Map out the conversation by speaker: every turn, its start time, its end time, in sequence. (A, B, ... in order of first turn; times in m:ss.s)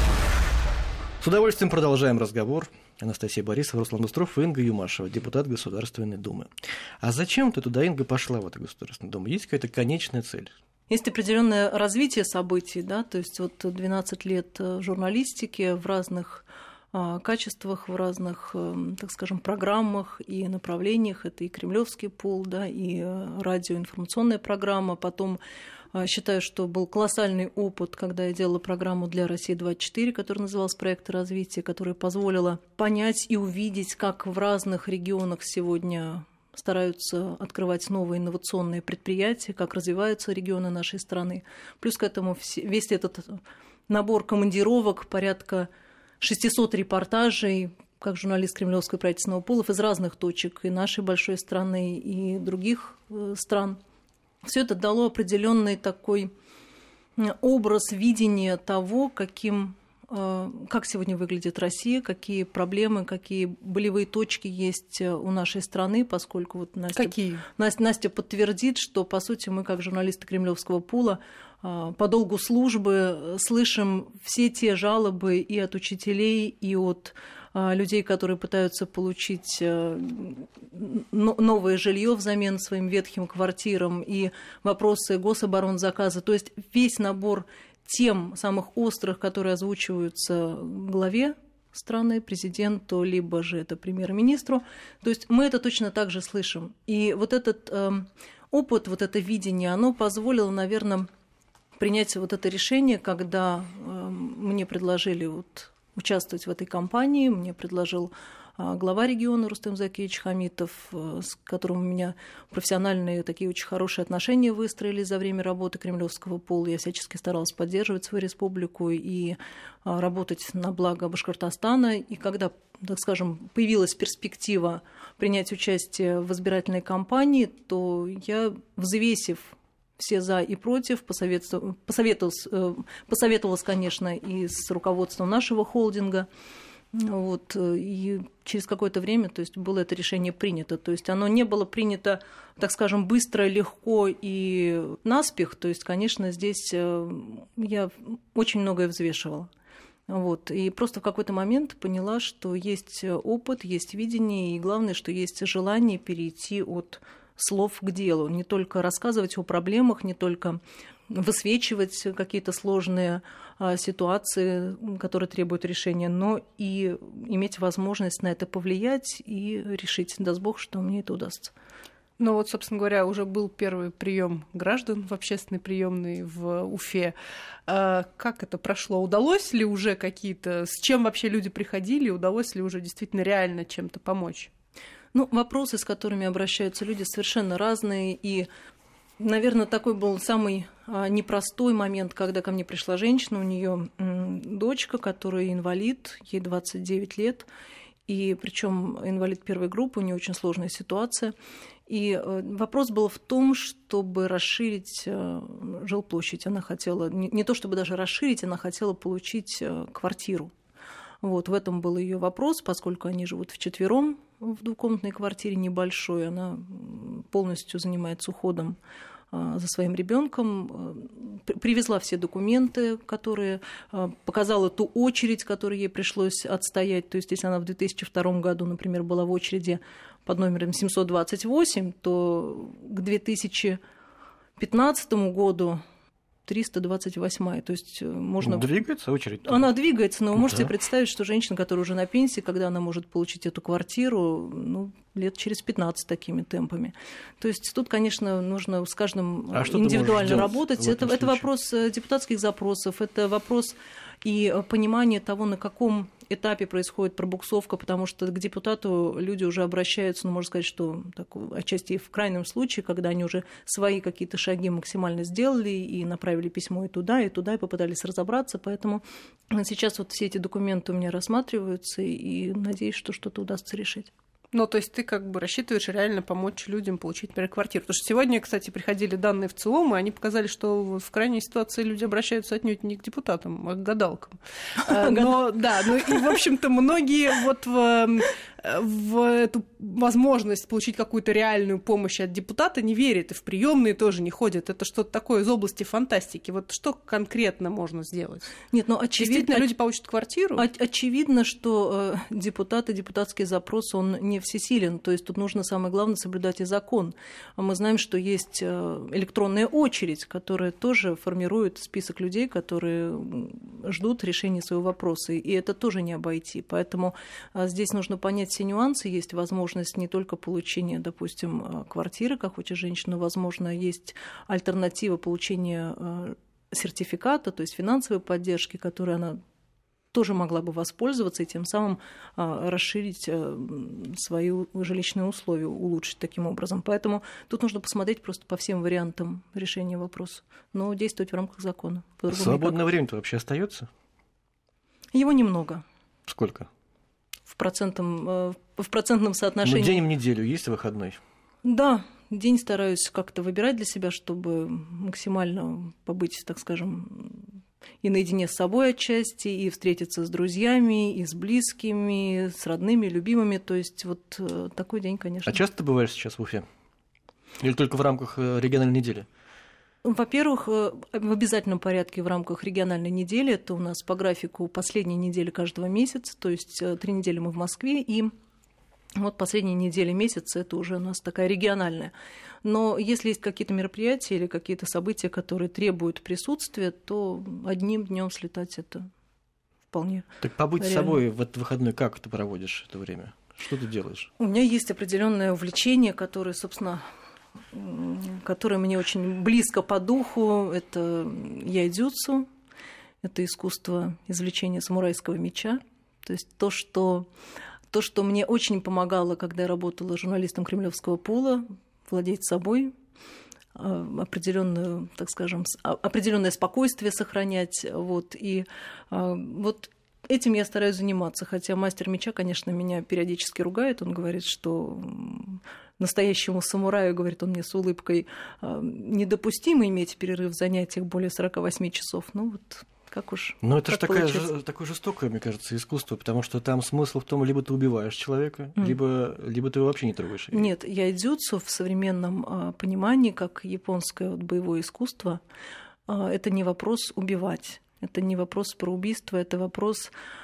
0:01.2-0:06.5 A
0:07.0-0:10.5 A
0:10.9-0:25.4 B
0:25.9-0:45.7 B
0:46.2-0:53.8 B
0:54.4-0:56.3 B
0:57.2-1:41.1 B
1:07.0-1:07.4 C
1:41.8-2:16.3 B
2:16.9-2:29.5 B
2:30.1-2:51.5 B
2:52.2-2:57.1 C
2:57.7-3:04.5 C
3:05.1-3:08.5 B
3:09.2-3:17.5 B
3:18.1-3:21.3 B
3:21.9-3:30.5 B
3:31.2-3:38.8 B
3:39.3-3:53.8 B
3:54.6-3:55.8 B
3:56.4-3:58.7 B
3:58.4-3:59.7 A
3:59.4-4:34.1 B
4:00.3-4:00.7 A
4:09.5-4:11.5 A
4:34.5-4:58.5 C
4:44.9-4:45.3 B
4:58.7-4:59.7 B
4:59.2-5:00.6 C
5:00.6-5:29.4 B
5:30.1-5:42.8 B
5:42.3-5:43.9 A
5:45.1-5:45.8 B
5:46.3-5:46.7 A
5:47.5-5:50.0 B
5:49.6-5:51.2 A
5:51.6-5:57.5 B
5:58.0-6:05.6 B
6:05.5-6:06.6 A
6:07.6-6:09.3 A
6:10.0-6:18.3 B
6:19.2-6:22.1 B
6:22.6-6:29.1 B
6:29.9-6:31.2 B
6:30.4-6:34.3 A
6:34.4-6:37.0 B
6:37.7-6:42.5 B
6:43.2-6:47.3 B
6:47.9-6:52.9 B
6:53.7-7:14.4 B
7:13.6-7:20.7 A
7:20.5-7:25.4 B
7:26.1-7:30.1 B